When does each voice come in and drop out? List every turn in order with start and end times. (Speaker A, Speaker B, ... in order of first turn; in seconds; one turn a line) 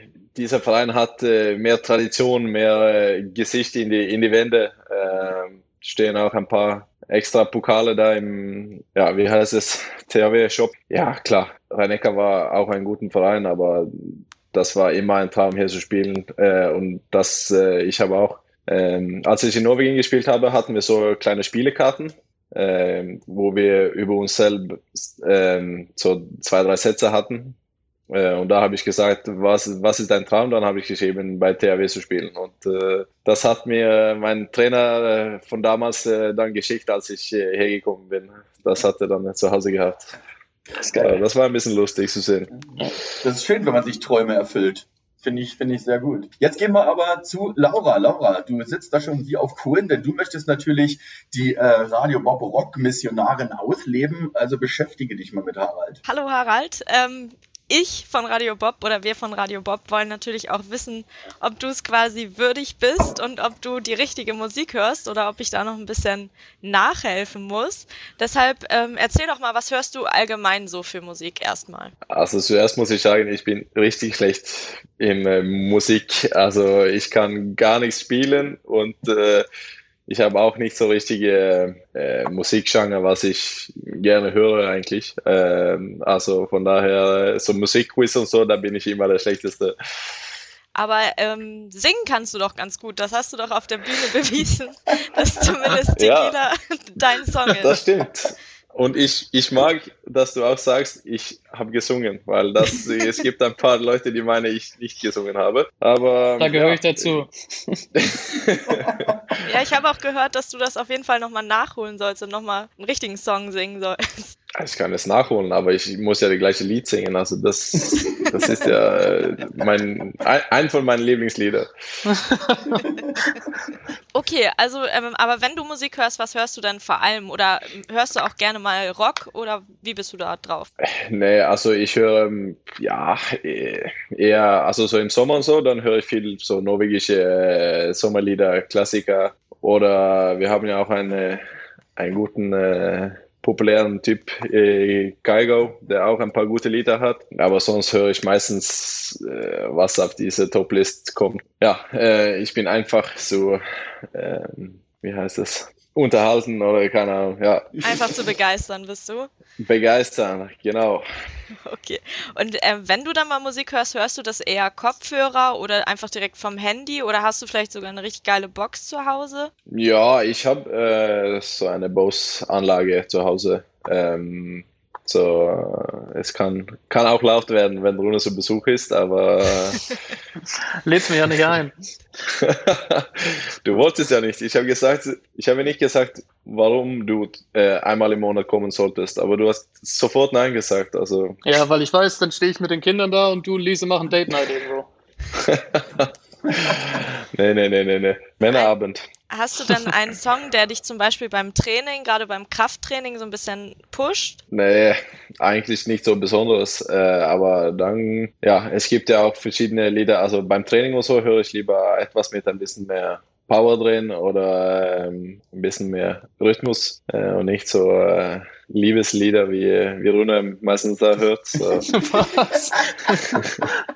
Speaker A: 0.3-27.6
Speaker A: 28.1-40.1
Speaker B: 40.9-41.2
Speaker A: 40.9-42.5
Speaker B: 43.1-56.0
Speaker C: 56.0-71.9
Speaker A: 72.1-79.5
Speaker A: 80.1-89.7
Speaker C: 90.8-97.8
Speaker A: 96.0-96.4
Speaker A: 97.6-107.2
Speaker D: 106.4-107.9
Speaker A: 108.0-109.1
Speaker B: 108.8-109.1
Speaker C: 109.4-114.3
Speaker A: 114.6-121.7
Speaker C: 118.2-118.5
Speaker D: 122.1-122.7
Speaker C: 124.1-130.7
Speaker A: 130.8-141.4
Speaker A: 142.0-153.6
Speaker A: 154.1-157.8
Speaker C: 157.8-159.3
Speaker A: 159.6-161.0
Speaker C: 161.5-169.5
Speaker A: 169.7-179.9
Speaker D: 180.8-181.8
Speaker A: 182.3-191.4
Speaker D: 191.4-194.9
Speaker A: 195.3-199.0
Speaker C: 198.5-198.7
Speaker C: 199.3-204.4
Speaker A: 204.5-222.0
Speaker D: 221.9-223.2